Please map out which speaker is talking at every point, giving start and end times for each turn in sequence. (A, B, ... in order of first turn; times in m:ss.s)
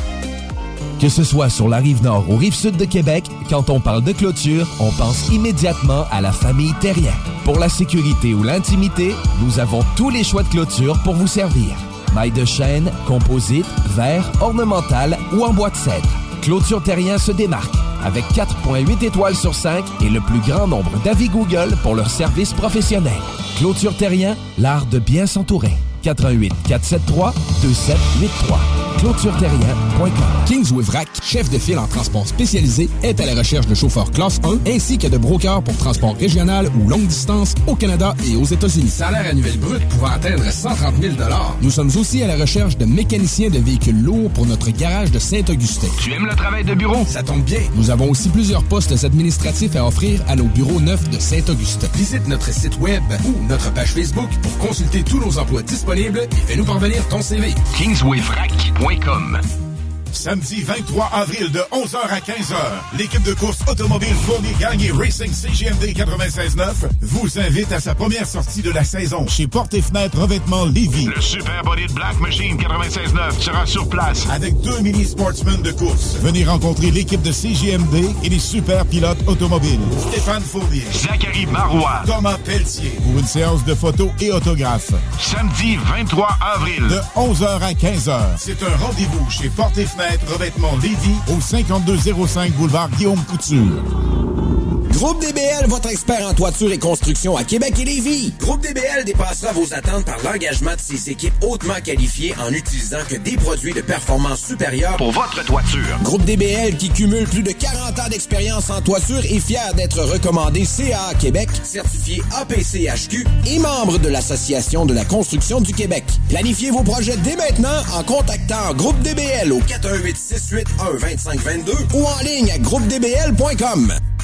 0:01.0-0:30.4 A
0:30.5-0:59.3 B
1:00.1-1:11.2 C
1:11.0-1:14.3 D
1:14.2-1:21.0 C
1:20.9-1:22.1 D
1:22.0-1:25.0 C
1:25.2-1:27.0 D
1:26.8-1:33.8 C
1:34.9-1:45.0 E
1:46.0-2:04.0 E